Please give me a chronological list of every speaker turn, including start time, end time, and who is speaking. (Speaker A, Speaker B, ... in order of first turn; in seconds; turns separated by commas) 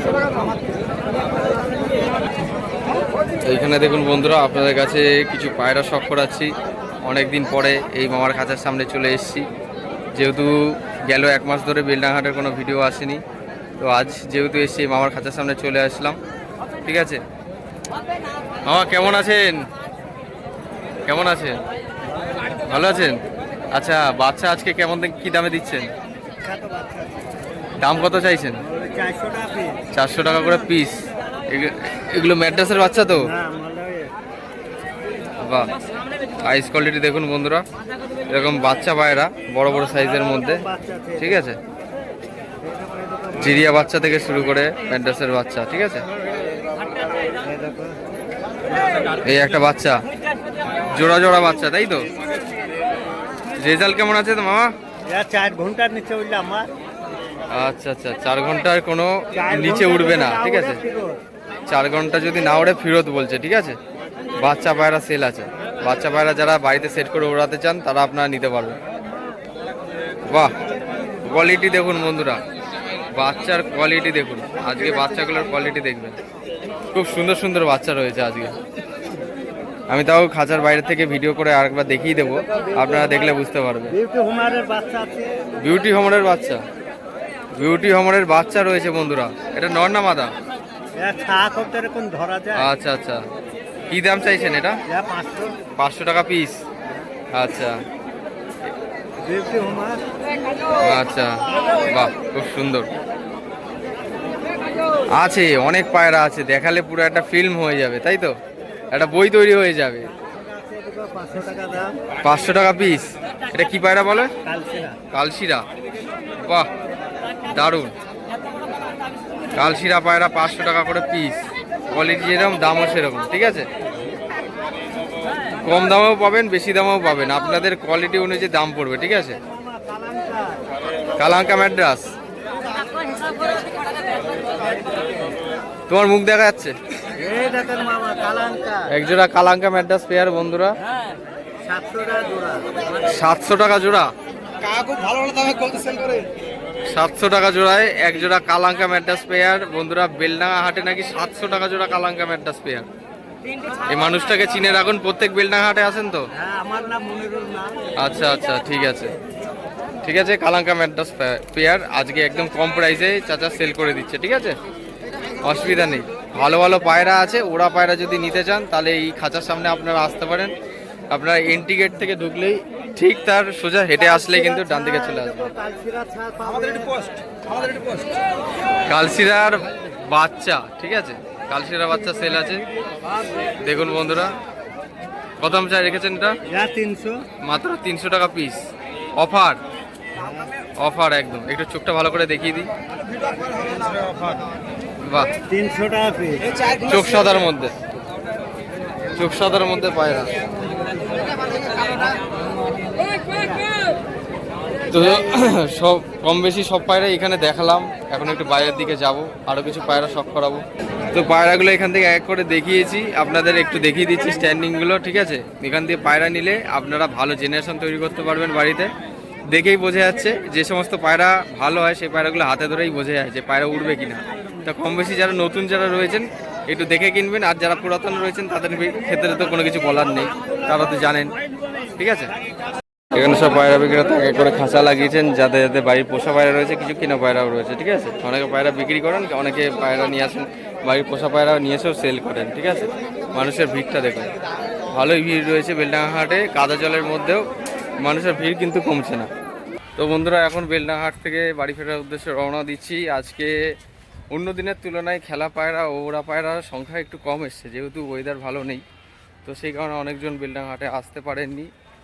Speaker A: 3.4-6.5, Speaker A: 7.0-9.5, Speaker A: 10.2-13.2, Speaker A: 13.8-16.2, Speaker A: 16.9-17.2, Speaker A: 18.7-19.7, Speaker A: 21.1-21.6, Speaker A: 22.6-23.2, Speaker A: 23.7-25.9, Speaker B: 26.4-27.2, Speaker A: 27.8-28.6, Speaker B: 28.6-29.8, Speaker A: 29.9-33.3, Speaker B: 33.2-34.1, Speaker A: 35.4-35.7, Speaker A: 36.4-37.6, Speaker A: 38.3-40.6, Speaker B: 40.5-41.2, Speaker A: 41.2-41.6, Speaker B: 42.6-43.3, Speaker A: 43.3-46.0, Speaker B: 47.4-48.0, Speaker B: 48.8-49.1, Speaker A: 49.2-50.0, Speaker A: 50.9-52.1, Speaker A: 53.6-54.7, Speaker B: 55.1-56.7, Speaker A: 57.5-60.8, Speaker B: 59.3-61.2, Speaker A: 61.7-63.8, Speaker A: 64.4-68.8, Speaker A: 70.3-70.5, Speaker A: 71.3-72.4, Speaker A: 73.1-76.2, Speaker A: 76.9-78.6, Speaker A: 79.9-84.0, Speaker B: 83.9-85.4, Speaker A: 85.6-86.6, Speaker A: 87.5-90.3, Speaker B: 91.0-92.7, Speaker A: 92.5-93.2, Speaker A: 93.9-94.8, Speaker B: 94.9-95.6, Speaker A: 95.8-96.6, Speaker A: 97.3-97.8, Speaker B: 99.2-100.0, Speaker A: 100.8-102.9, Speaker A: 105.1-108.3, Speaker A: 108.9-110.1, Speaker B: 110.3-112.0, Speaker A: 112.2-114.3, Speaker B: 114.4-115.0, Speaker A: 115.1-115.7, Speaker A: 116.4-116.7, Speaker A: 117.5-118.0, Speaker A: 119.5-123.7, Speaker A: 125.6-129.4, Speaker B: 129.6-130.7, Speaker A: 131.2-132.1, Speaker B: 133.0-133.3, Speaker A: 135.9-136.8, Speaker B: 137.2-138.9, Speaker A: 138.9-140.7, Speaker B: 141.6-142.7, Speaker A: 143.0-144.1, Speaker C: 144.6-146.3, Speaker A: 146.9-152.9, Speaker A: 153.8-156.3, Speaker B: 156.4-157.8, Speaker A: 158.0-159.1, Speaker A: 160.0-164.6, Speaker A: 165.4-170.5, Speaker A: 171.1-175.5, Speaker B: 174.1-177.1, Speaker C: 176.6-178.1, Speaker A: 178.9-182.7, Speaker A: 183.6-184.4, Speaker A: 185.4-186.4, Speaker B: 186.5-187.2, Speaker A: 187.4-189.6, Speaker B: 190.2-190.5, Speaker A: 190.8-192.7, Speaker C: 193.2-194.5, Speaker A: 195.1-195.3, Speaker B: 195.5-196.5, Speaker A: 196.8-197.8, Speaker A: 199.2-200.3, Speaker A: 204.9-218.9, Speaker A: 219.5-231.3, Speaker A: 232.0-232.3, Speaker A: 233.1-244.3, Speaker A: 244.9-247.4, Speaker A: 248.0-249.3, Speaker A: 250.0-253.6, Speaker A: 254.3-258.8, Speaker A: 259.4-261.7